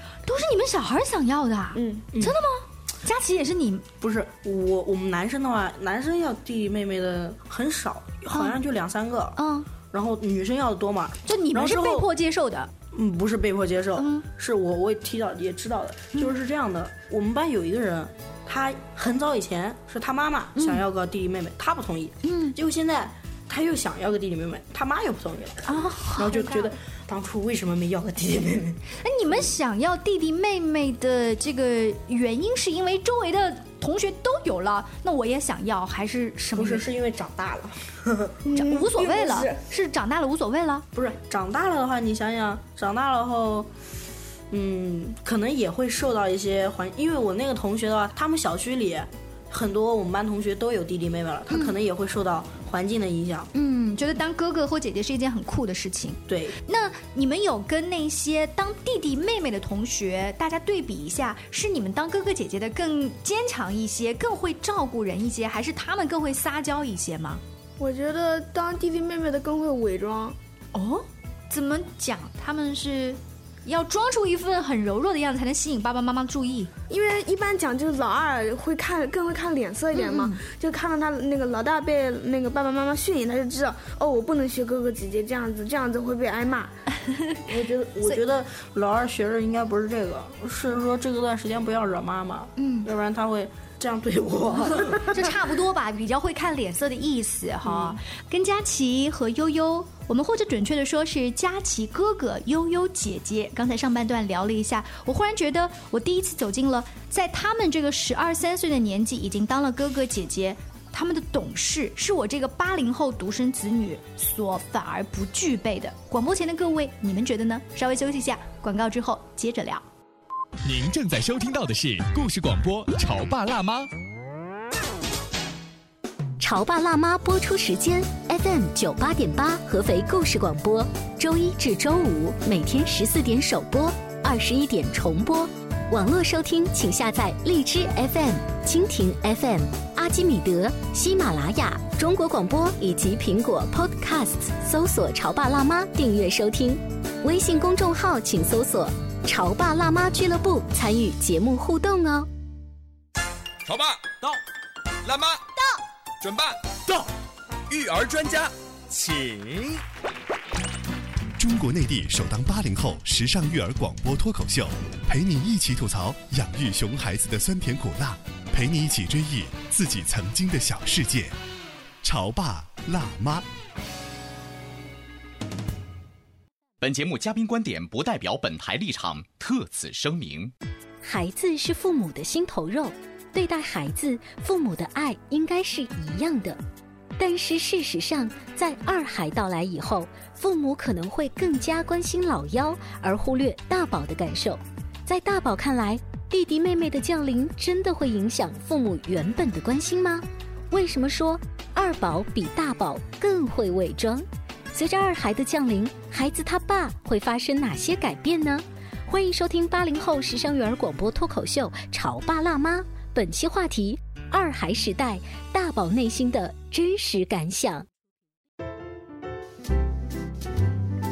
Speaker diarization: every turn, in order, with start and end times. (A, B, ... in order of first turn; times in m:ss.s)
0:00.2-0:03.8 A
0:01.7-0:02.0 B
0:02.1-0:02.4 C
0:04.0-0:09.4 C
0:09.4-0:09.7 A
0:09.9-0:12.1 C
0:11.2-0:12.7 A
0:12.9-0:28.8 C
0:14.0-0:14.2 A
0:20.6-0:20.8 A
0:22.2-0:22.6 A
0:25.6-0:26.7 A
0:29.0-0:36.8 A
0:36.5-0:38.4 C
0:38.5-0:40.8 A
0:38.5-0:39.6 B
0:40.9-0:43.7 C
0:44.5-0:53.5 C
0:51.5-0:51.7 A
0:53.5-1:07.4 A
0:56.3-0:56.6 C
1:07.8-1:10.4 B
1:10.7-1:16.7 A
1:16.9-1:26.7 B
1:19.9-1:20.4 A
1:27.1-1:27.4 A
1:27.4-1:35.3 C
1:32.6-1:32.9 A
1:35.1-1:59.8 A
1:37.6-1:38.0 C
2:00.6-2:03.9 D
2:06.4-2:32.3 E
2:33.6-2:34.4 F
2:35.0-2:35.4 F
2:36.2-2:37.1 F
2:37.7-2:39.8 F
2:41.4-2:51.4 G
2:52.0-2:53.4 G
2:56.8-3:00.5 H
3:01.0-3:06.6 E
3:07.2-3:37.8 E